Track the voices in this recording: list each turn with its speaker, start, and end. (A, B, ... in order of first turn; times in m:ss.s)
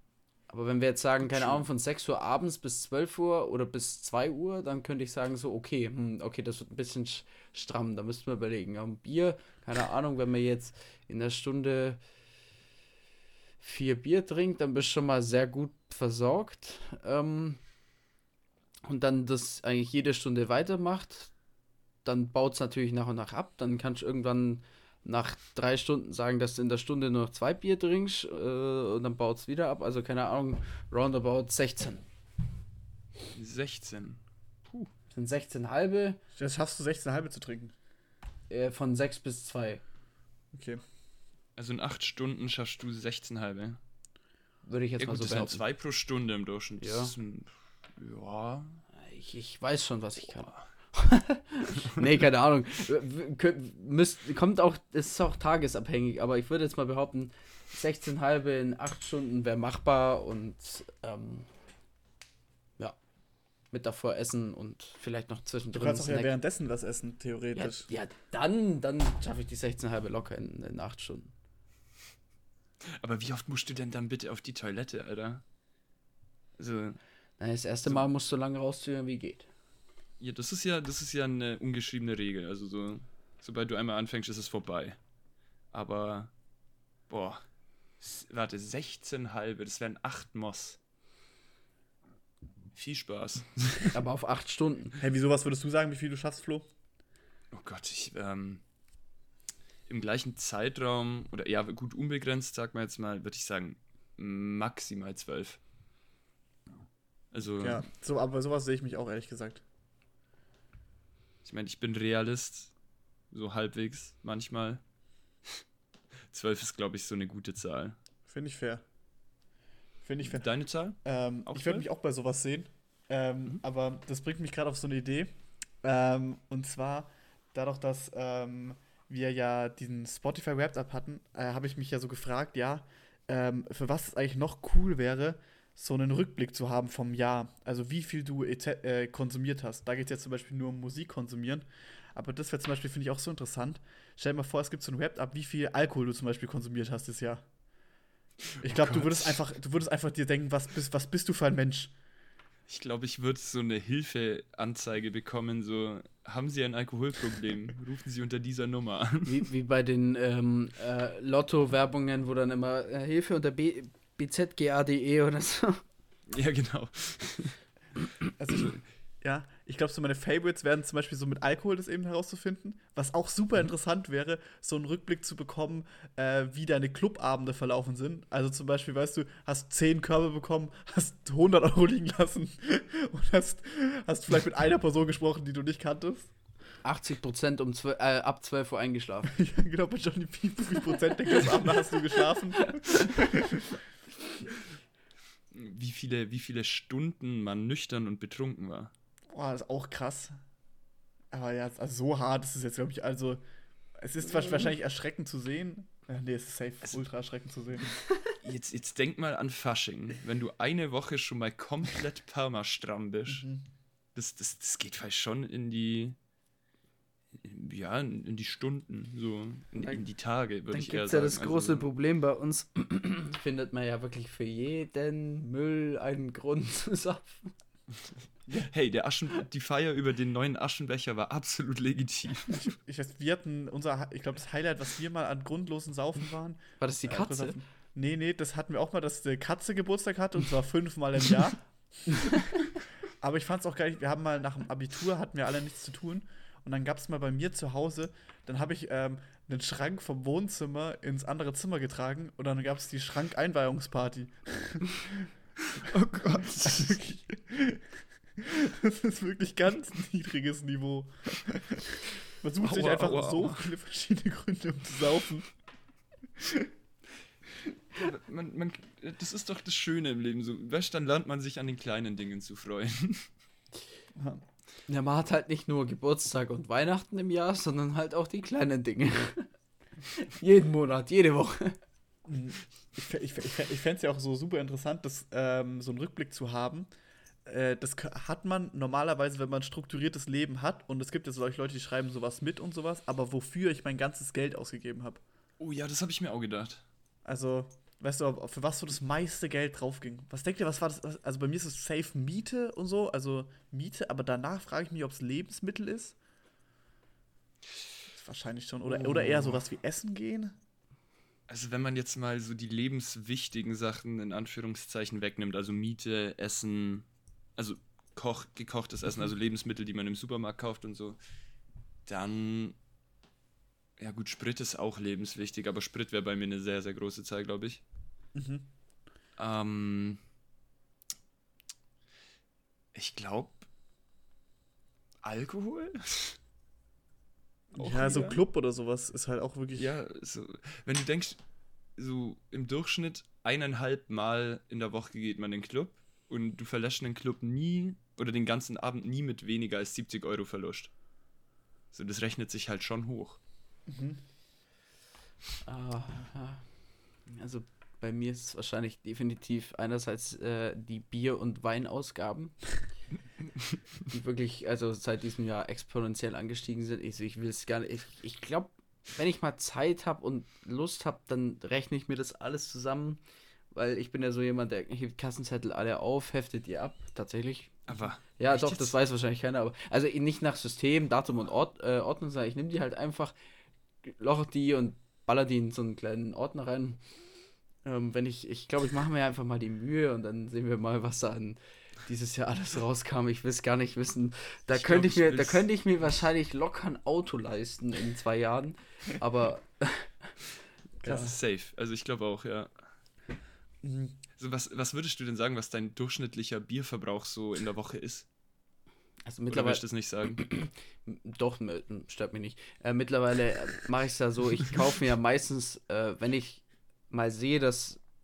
0:00.5-0:12.0 A
0:01.2-0:01.6 B
0:13.6-0:17.6 A
0:18.8-0:21.3 A
0:22.0-0:32.0 A
0:33.3-0:34.9 B
0:35.1-0:36.2 A
0:36.4-0:37.7 C
0:38.5-0:39.8 A
0:40.5-0:40.8 C
0:41.6-0:43.8 B
0:44.6-0:45.6 A
0:45.0-0:48.8 B
0:46.8-0:47.1 A
0:49.0-1:01.5 A
0:50.3-0:50.6 B
1:03.7-1:06.3 A
1:05.7-1:07.8 C
1:07.5-1:11.3 A
1:13.0-1:15.4 B
1:16.6-1:17.0 B
1:17.4-1:19.5 A
1:20.2-1:25.0 B
1:25.7-1:26.3 B
1:27.1-1:27.4 B
1:28.0-1:30.8 B
1:32.7-1:33.9 B
1:33.9-1:35.0 A
1:35.0-1:36.6 C
1:37.5-1:38.6 B
1:39.9-1:45.6 B
1:47.3-1:47.8 B
1:47.6-1:49.6 C
1:51.4-1:52.7 B
1:53.3-1:54.8 B
1:56.3-1:58.0 B
1:58.3-1:58.8 C
2:00.0-2:00.5 C
2:00.2-2:01.8 B
2:01.0-2:27.4 C
2:28.5-2:29.4 B
2:28.6-2:31.9 C
2:32.7-2:39.5 B
2:39.2-2:45.8 A
2:46.3-2:47.6 B
2:48.4-3:06.3 C
3:06.8-3:09.3 A
3:09.3-3:13.6 C
3:12.1-3:13.3 A
3:15.5-3:18.9 B
3:19.3-3:20.3 C
3:21.3-3:23.4 C
3:24.0-3:27.9 C
3:28.4-3:33.5 B
3:33.3-3:33.6 C
3:34.1-3:36.2 B
3:37.3-3:41.9 B
3:40.7-3:47.5 A
3:48.6-3:52.6 B
3:52.5-4:01.6 C
3:56.8-3:57.6 A
4:02.1-4:02.5 A
4:03.2-4:15.3 C
4:15.7-4:17.0 B
4:15.8-4:25.5 C
4:22.6-4:23.6 B
4:26.4-4:26.7 C
4:27.9-4:33.3 B
4:34.1-4:34.4 C
4:34.9-4:39.5 A
4:40.0-4:41.8 A
4:42.2-4:46.9 C
4:47.4-4:55.2 C
4:55.6-4:56.8 B
4:57.2-5:06.2 C
5:08.1-5:10.5 C
5:09.0-5:09.6 B
5:11.5-5:17.0 B
5:17.6-5:21.2 B
5:22.0-5:22.8 B
5:24.0-5:27.8 B
5:28.4-5:28.6 C
5:29.4-5:30.2 B
5:32.9-5:33.6 B
5:35.2-5:36.4 B
5:37.7-5:39.9 C
5:37.8-5:38.4 B
5:39.8-5:41.4 B
5:42.0-5:50.9 B
5:51.9-5:53.4 B
5:53.9-5:54.2 C
5:55.6-5:56.6 A
5:57.3-6:02.6 A
6:04.1-6:13.2 A
6:13.7-6:23.3 A
6:17.9-6:18.9 B
6:24.0-6:27.0 A
6:27.8-6:40.3 A
6:34.7-6:35.6 B
6:41.0-6:42.7 B
6:41.0-6:41.3 A
6:43.8-6:44.2 C
6:44.4-6:48.3 B
6:49.2-6:58.0 A
6:49.5-6:50.4 B